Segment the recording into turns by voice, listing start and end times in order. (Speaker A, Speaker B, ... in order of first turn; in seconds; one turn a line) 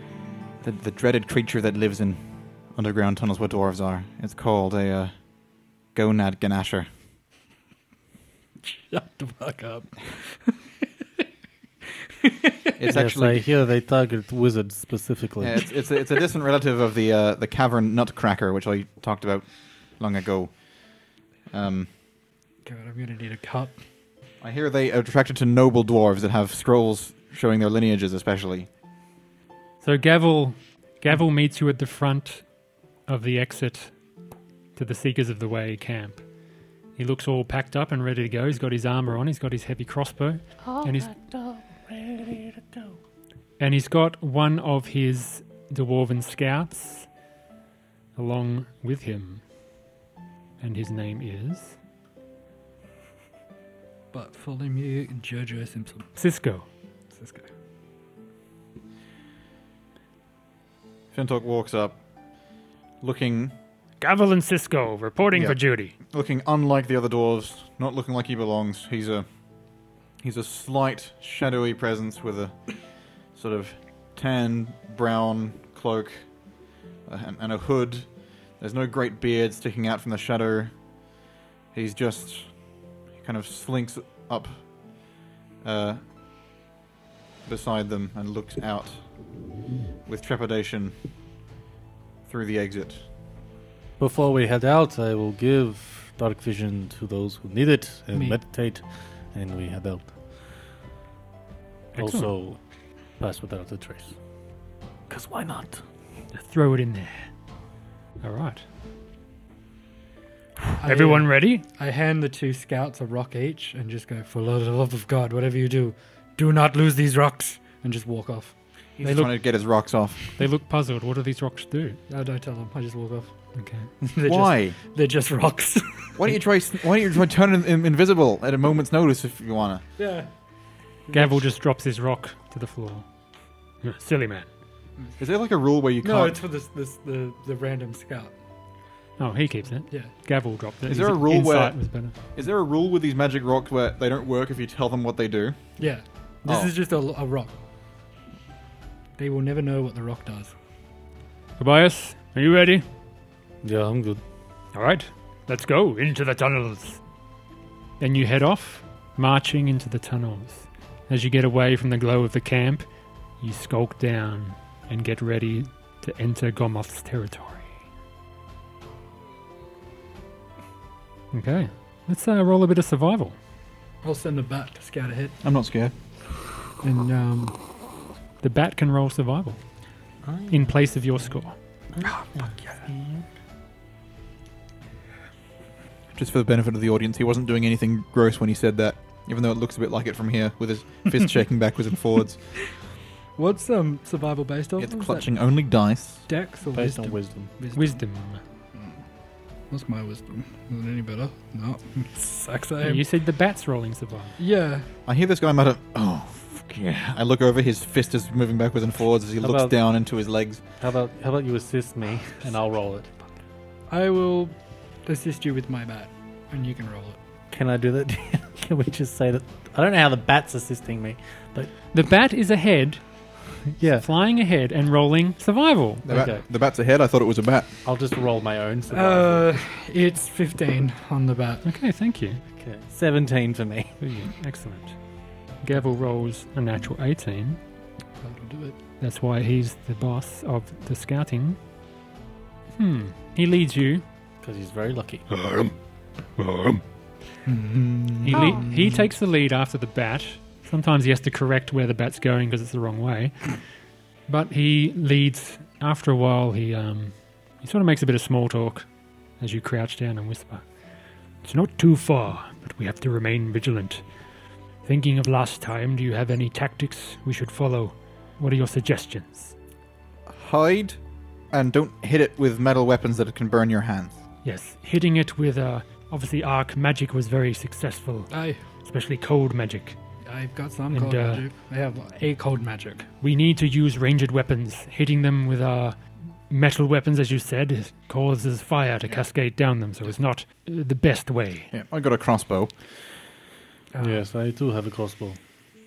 Speaker A: 0.6-5.3
Speaker A: 5.9-6.9
Speaker B: 8.6-10.8
Speaker B: 12.2-12.7
Speaker A: 12.8-13.5
Speaker C: 12.9-15.7
Speaker A: 15.4-21.9
Speaker B: 22.6-23.8
Speaker A: 24.4-28.7
Speaker D: 29.8-32.5
Speaker D: 33.1-33.9
Speaker D: 34.8-36.2
Speaker D: 37.0-41.1
Speaker C: 40.6-43.0
Speaker D: 43.6-47.1
Speaker D: 48.1-49.4
Speaker D: 50.6-51.8
Speaker B: 54.1-56.1
Speaker D: 56.1-56.7
Speaker B: 57.1-57.5
Speaker A: 61.1-62.0
Speaker A: 63.0-63.5
Speaker D: 64.0-65.9
Speaker A: 65.3-69.2
Speaker A: 70.2-76.3
Speaker A: 77.0-80.7
Speaker A: 81.7-82.5
Speaker A: 83.2-85.1
Speaker A: 85.6-86.0
Speaker A: 87.4-89.0
Speaker A: 90.0-90.9
Speaker A: 92.3-93.0
Speaker C: 94.0-100.2
Speaker B: 98.1-98.4
Speaker D: 101.9-102.3
Speaker C: 102.0-102.6
Speaker C: 103.2-104.2
Speaker C: 105.1-105.8
Speaker D: 106.3-107.3
Speaker D: 108.2-108.6
Speaker B: 110.8-118.5
Speaker D: 110.8-111.6
Speaker A: 119.0-120.3
Speaker D: 119.0-119.4
Speaker D: 120.3-122.0
Speaker B: 122.1-123.3
Speaker D: 123.5-123.9
Speaker B: 124.0-126.4
Speaker A: 124.2-124.8
Speaker A: 126.2-129.8
Speaker B: 130.0-130.3
Speaker B: 131.1-131.5
Speaker D: 131.1-133.1
Speaker D: 133.8-134.5
Speaker A: 135.2-136.4
Speaker B: 136.0-138.3
Speaker D: 139.2-142.1
Speaker A: 140.9-145.8
Speaker B: 145.8-147.5
Speaker A: 146.4-146.7
Speaker B: 149.2-150.5
Speaker D: 151.6-152.8
Speaker C: 153.6-154.2
Speaker D: 154.7-157.0
Speaker D: 158.0-162.8
Speaker D: 163.4-167.7
Speaker D: 171.3-173.3
Speaker B: 174.0-175.4
Speaker A: 175.4-175.9
Speaker B: 176.8-177.6
Speaker D: 178.4-179.6
Speaker C: 180.2-183.2
Speaker D: 180.5-181.6
Speaker B: 182.0-182.8
Speaker A: 186.1-192.7
Speaker B: 193.3-195.3
Speaker A: 194.8-196.3
Speaker B: 196.3-198.0
Speaker C: 196.7-197.5
Speaker D: 197.7-198.4
Speaker B: 198.7-199.0
Speaker B: 199.7-203.1
Speaker D: 202.8-204.3
Speaker B: 204.4-204.9
Speaker A: 205.1-210.6
Speaker C: 209.4-209.8
Speaker C: 210.8-213.1
Speaker B: 213.9-217.2
Speaker C: 217.5-221.7
Speaker D: 221.9-223.0
Speaker C: 223.8-224.1
Speaker D: 223.9-226.0
Speaker A: 226.0-227.8
Speaker C: 226.1-226.4
Speaker C: 227.8-229.6
Speaker B: 228.9-231.6
Speaker D: 231.6-232.4
Speaker C: 232.5-234.0
Speaker D: 234.0-235.0
Speaker D: 235.6-237.6
Speaker B: 238.2-238.8
Speaker D: 239.0-241.6
Speaker D: 242.8-244.0
Speaker C: 244.4-245.2
Speaker D: 245.3-245.7
Speaker D: 246.3-246.8
Speaker B: 247.4-249.0
Speaker D: 248.2-253.6
Speaker D: 254.3-258.9
Speaker D: 259.4-260.6
Speaker D: 261.4-264.0
Speaker D: 264.8-269.5
Speaker A: 270.3-271.0
Speaker A: 271.5-274.2
Speaker D: 274.4-279.9
Speaker B: 278.3-278.6
Speaker B: 280.2-283.1
Speaker D: 280.9-281.4
Speaker D: 283.2-291.7
Speaker A: 291.7-292.7
Speaker B: 293.9-294.2
Speaker C: 294.0-295.4